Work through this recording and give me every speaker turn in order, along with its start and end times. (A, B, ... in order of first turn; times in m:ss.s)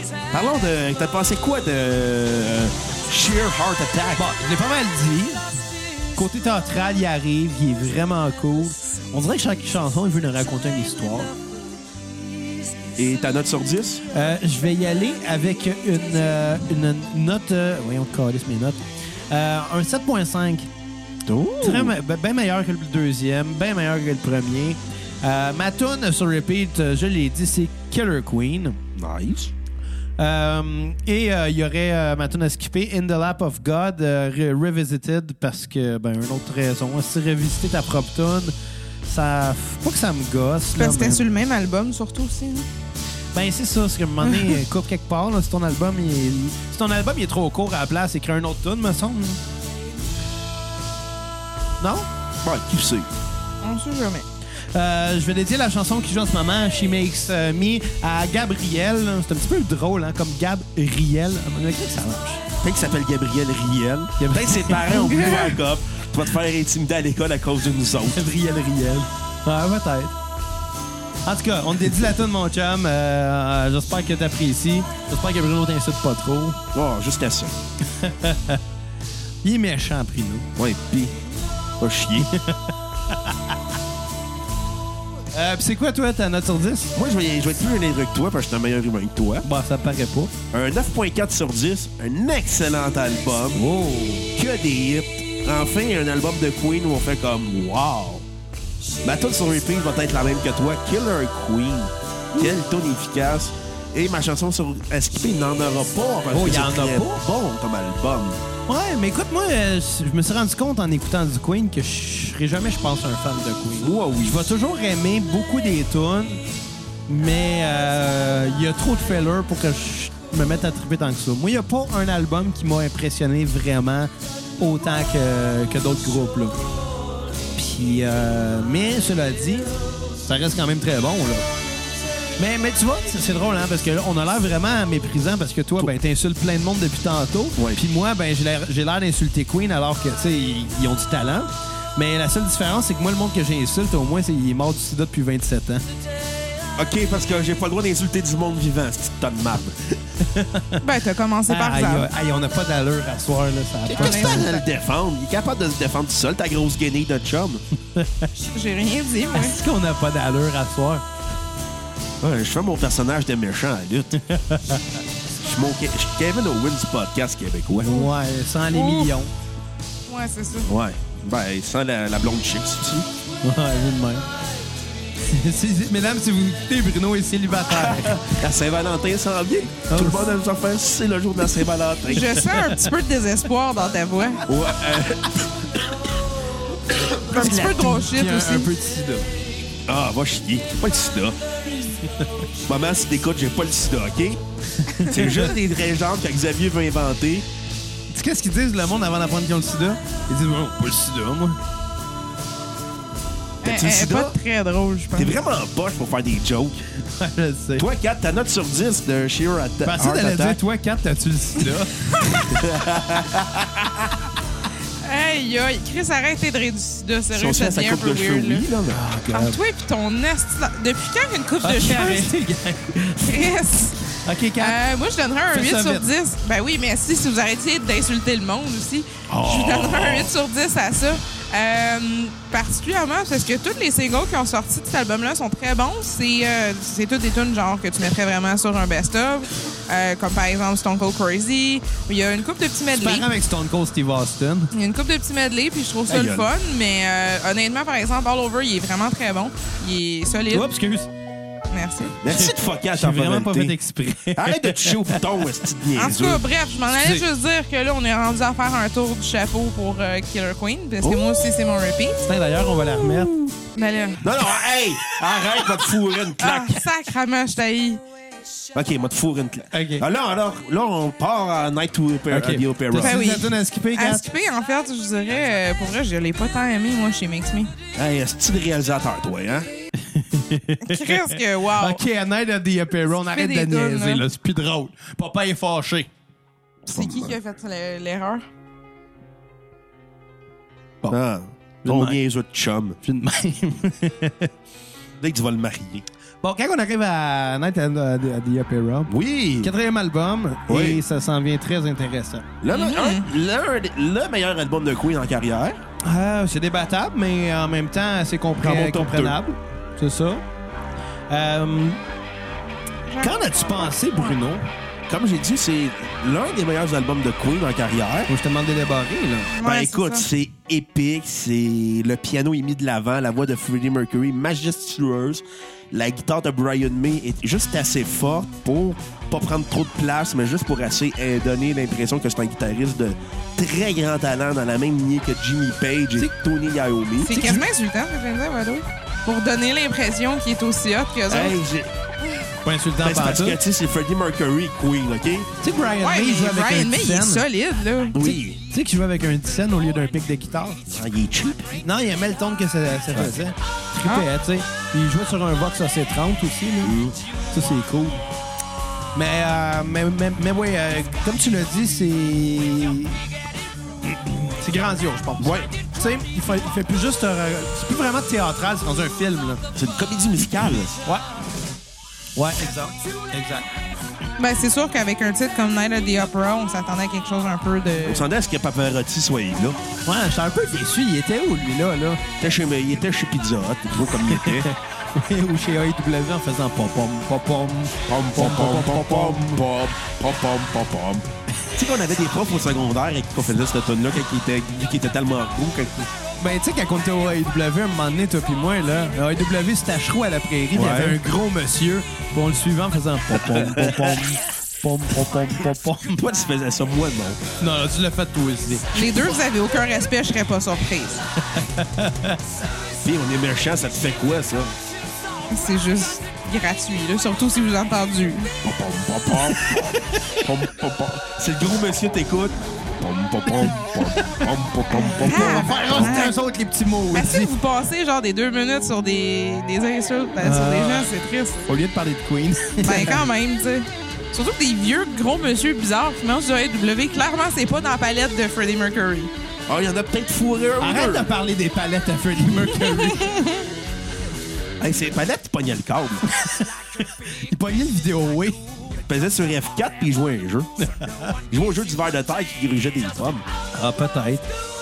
0:00.3-0:04.2 A
0:04.2-0:05.5 B
0:06.1-0:11.3 B
0:13.0-0:14.0 A
0:14.1-0:20.7 B
0:21.3-0:21.9 A
0:21.6-0:28.8 B
0:29.0-0:29.5 A
0:30.2-0:38.5 B
0:39.0-0:41.2 B
0:40.7-0:42.7 C
0:43.3-0:49.4 B
0:51.8-0:52.1 B
0:52.4-0:53.1 A
0:53.6-0:54.2 C
0:54.7-1:02.4 B
1:02.6-1:08.3 A
1:04.2-1:05.3 B
1:04.9-1:05.5 C
1:08.1-1:10.2 B
1:11.2-1:16.6 B
1:16.7-1:17.5 A
1:18.0-1:18.6 B
1:19.4-1:20.5 B
1:20.6-1:21.1 A
1:21.8-1:22.3 A
1:22.2-1:23.5 B
1:25.3-1:26.9 B
1:27.0-1:29.4 A
1:29.4-1:30.3 B
1:30.5-1:33.6 A
1:33.5-1:34.3 B
1:34.3-1:38.2 A
1:39.0-1:48.4 A
1:46.3-1:47.2 B
1:48.7-1:56.4 B
1:53.8-1:54.4 A
1:57.1-2:06.6 B
2:07.5-2:09.7 B
2:10.2-2:11.5 B
2:12.4-2:25.8 B
2:17.6-2:17.8 A
2:26.8-2:29.8 A
2:30.2-2:30.8 B
2:30.8-2:32.1 C
2:31.5-2:34.6 B
2:33.9-2:37.6 A
2:34.0-2:34.6 C
2:37.9-2:38.3 B
2:38.5-2:39.6 C
2:39.3-2:41.0 B
2:42.2-2:44.2 A
2:44.2-2:45.0 B
2:45.4-2:48.0 A
2:47.8-2:49.3 B
2:48.7-2:49.1 C
2:50.1-2:50.7 C
2:50.7-2:53.1 A
2:53.4-2:54.3 B
2:55.2-2:58.3 B
2:57.7-3:02.4 A
2:59.9-3:00.3 B
3:02.0-3:04.4 C
3:02.4-3:02.8 B
3:04.4-3:05.9 A
3:07.0-3:07.6 A
3:07.3-3:08.7 C
3:07.3-3:09.3 B
3:09.9-3:11.4 A
3:12.0-3:12.3 B
3:12.6-3:14.4 A
3:15.0-3:15.5 B
3:15.0-3:17.4 A
3:18.1-3:21.6 B
3:23.6-3:25.4 C
3:23.6-3:24.4 A
3:25.2-3:26.8 A
3:27.0-3:27.9 B
3:27.8-3:30.6 A
3:29.8-3:32.4 B
3:32.1-3:32.6 C
3:32.5-3:34.1 A
3:35.0-3:38.6 C
3:37.3-3:39.0 A
3:38.9-3:39.6 B
3:39.3-3:42.3 C
3:41.6-3:43.5 B
3:43.2-4:03.3 C
3:44.2-3:44.8 B
3:45.5-3:46.1 B
3:49.3-3:50.3 A
4:02.9-4:04.7 B
4:04.7-4:10.7 C
4:06.1-4:06.5 A
4:10.5-4:11.1 B
4:11.7-4:12.2 C
4:12.2-4:13.7 A
4:12.3-4:15.3 B
4:14.3-4:16.4 A
4:15.9-4:22.2 C
4:21.0-4:21.4 A
4:22.3-4:23.3 B
4:23.7-4:24.4 C
4:24.2-4:26.8 A
4:26.4-4:28.0 C
4:28.7-4:33.2 A
4:29.7-4:30.0 B
4:32.3-4:34.2 B
4:33.0-4:37.7 C
4:37.9-4:39.7 A
4:40.0-4:46.1 B
4:40.8-4:42.0 C
4:43.3-4:44.2 C
4:46.8-4:48.4 C
4:46.9-4:47.3 A
4:51.1-4:53.0 A
4:51.8-4:52.2 B
4:53.0-4:54.5 B
4:55.2-4:56.0 A
4:56.4-5:02.5 B
4:59.1-4:59.7 A
5:00.7-5:01.0 A
5:02.6-5:05.8 A
5:02.7-5:03.2 C
5:06.0-5:10.4 B
5:08.6-5:09.4 A
5:11.3-5:12.0 B
5:13.1-5:14.3 C
5:13.2-5:14.7 B
5:15.1-5:18.3 A
5:18.3-5:19.5 B
5:19.5-5:20.3 C
5:19.6-5:37.4 A
5:37.2-5:41.6 C
5:37.3-5:37.6 B
5:41.3-5:41.9 A
5:42.6-5:43.6 B
5:43.0-5:45.5 A
5:45.6-5:47.4 B
5:46.0-5:48.2 C
5:48.1-5:48.6 A
5:48.2-5:50.8 B
5:50.9-5:51.7 A
5:51.8-5:57.0 B
5:56.8-5:57.2 A
5:57.5-5:58.2 B
5:59.1-6:03.2 B
6:04.0-6:09.6 B
6:05.4-6:05.7 A
6:09.7-6:11.0 A
6:12.4-6:13.7 B
6:14.4-6:18.2 C
6:18.0-6:19.8 A
6:20.0-6:22.2 B
6:22.4-6:24.7 A
6:24.2-6:29.7 B
6:28.1-6:36.1 A
6:36.4-6:46.2 B
6:40.7-6:41.2 A
6:43.3-6:44.2 A
6:46.2-6:47.4 A
6:47.6-6:49.0 B
6:48.9-6:51.2 C
6:51.5-6:52.4 B
6:53.0-6:54.7 A
6:55.5-6:58.5 C
6:58.6-7:06.2 A
6:59.3-7:00.5 B
7:03.6-7:07.5 B
7:05.0-7:06.4 C
7:07.1-7:11.6 C
7:10.4-7:11.1 B
7:11.6-7:13.2 B
7:12.8-7:19.3 C
7:19.7-7:21.3 A
7:20.8-7:23.4 B
7:23.0-7:23.6 C
7:24.8-7:26.2 A
7:26.3-7:28.6 B
7:29.0-7:30.7 A
7:30.8-7:31.4 B
7:31.5-7:33.4 A
7:33.7-7:34.5 B